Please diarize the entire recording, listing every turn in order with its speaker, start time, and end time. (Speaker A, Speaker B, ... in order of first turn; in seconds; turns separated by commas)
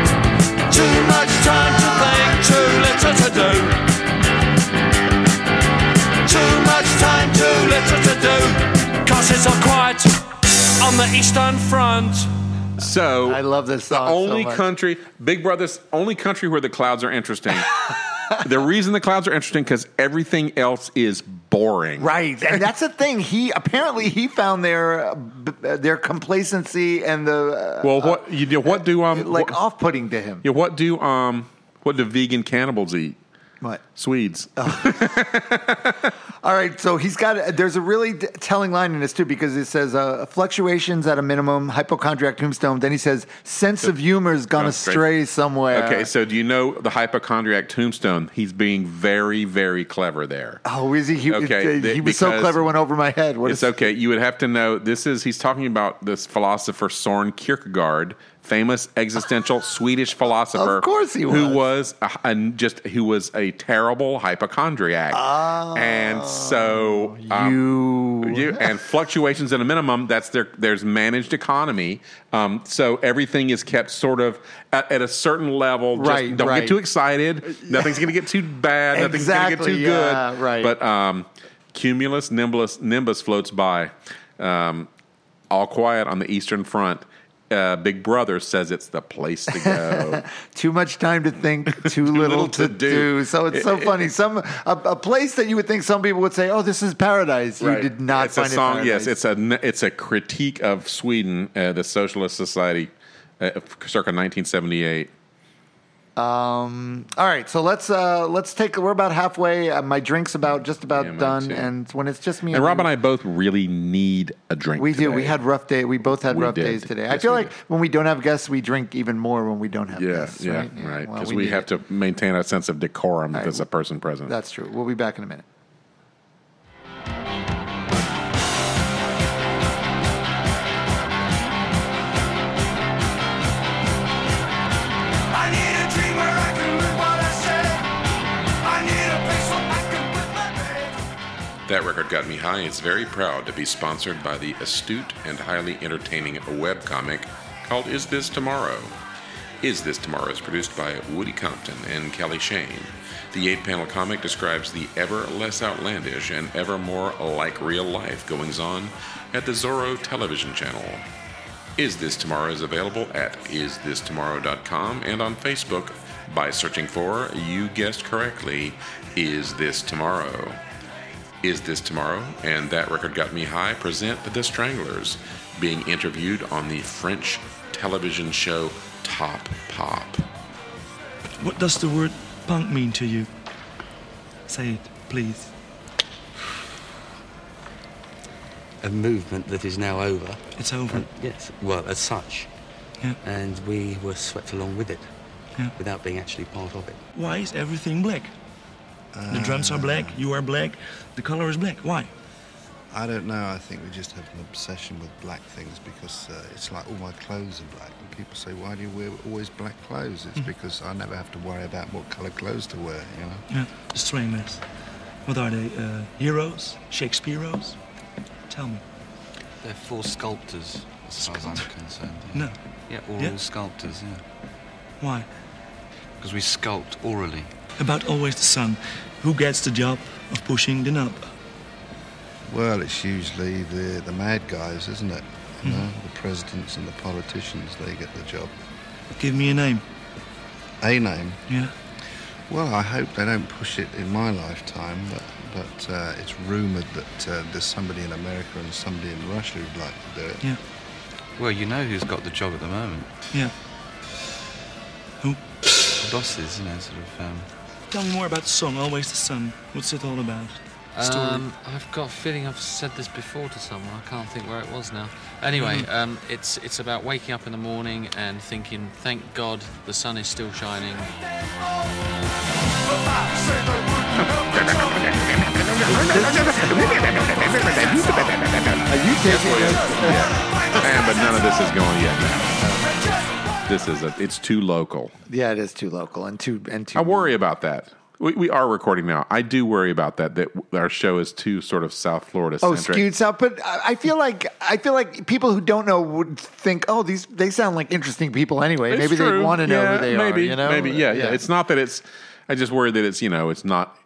Speaker A: 0.7-3.9, Speaker A: 6.2-12.3, Speaker B: 12.8-22.1, Speaker C: 13.2-14.6, Speaker C: 22.0-30.4, Speaker B: 27.8-29.6, Speaker B: 30.4-33.2, Speaker B: 34.0-36.1, Speaker C: 34.6-35.4, Speaker C: 36.4-46.1, Speaker B: 44.6-45.0, Speaker B: 45.7-50.6, Speaker C: 50.6-53.7, Speaker B: 51.3-52.6, Speaker B: 53.4-67.6, Speaker C: 60.5-61.6, Speaker C: 65.1-68.7, Speaker B: 68.2-84.9, Speaker C: 75.9-76.8, Speaker C: 77.7-78.1, Speaker C: 78.9-80.7, Speaker B: 85.5-90.2, Speaker C: 89.5-99.1, Speaker B: 91.8-94.1, Speaker B: 97.6-105.1, Speaker C: 106.2-112.9, Speaker B: 110.9-111.7, Speaker B: 112.5-115.4, Speaker C: 114.8-121.7, Speaker B: 116.3-117.5, Speaker B: 120.0-124.3, Speaker C: 123.3-123.7, Speaker C: 124.2-125.4, Speaker A: 135.4-137.8, Speaker A: 138.7-140.8, Speaker B: 141.7-148.9, Speaker B: 149.6-161.0, Speaker B: 161.8-170.6, Speaker B: 171.4-180.2, Speaker D: 181.4-183.3, Speaker D: 184.5-185.5, Speaker E: 188.8-192.5, Speaker D: 190.5-191.1, Speaker E: 193.2-195.1, Speaker E: 195.8-197.0, Speaker D: 197.1-198.3, Speaker F: 199.1-200.2, Speaker D: 199.3-202.1, Speaker F: 202.9-213.4, Speaker D: 213.5-214.6, Speaker D: 215.2-217.8, Speaker D: 218.5-218.8, Speaker E: 219.6-224.2, Speaker D: 221.2-221.7, Speaker D: 222.3-222.6, Speaker D: 225.0-225.3, Speaker E: 226.2-227.5, Speaker D: 227.8-231.3, Speaker F: 232.5-238.5, Speaker D: 235.6-235.9, Speaker D: 239.2-239.8, Speaker F: 240.8-241.4, Speaker D: 241.5-241.7, Speaker F: 242.5-250.4, Speaker E: 251.4-253.1, Speaker E: 255.9-257.5, Speaker D: 257.9-261.4, Speaker G: 260.9-271.1, Speaker B: 274.2-282.6, Speaker C: 275.9-277.3, Speaker C: 278.9-280.9, Speaker C: 282.6-283.1, Speaker B: 283.6-285.1, Speaker C: 285.3-287.3, Speaker B: 286.9-293.1, Speaker C: 292.6-301.4, Speaker B: 298.9-303.9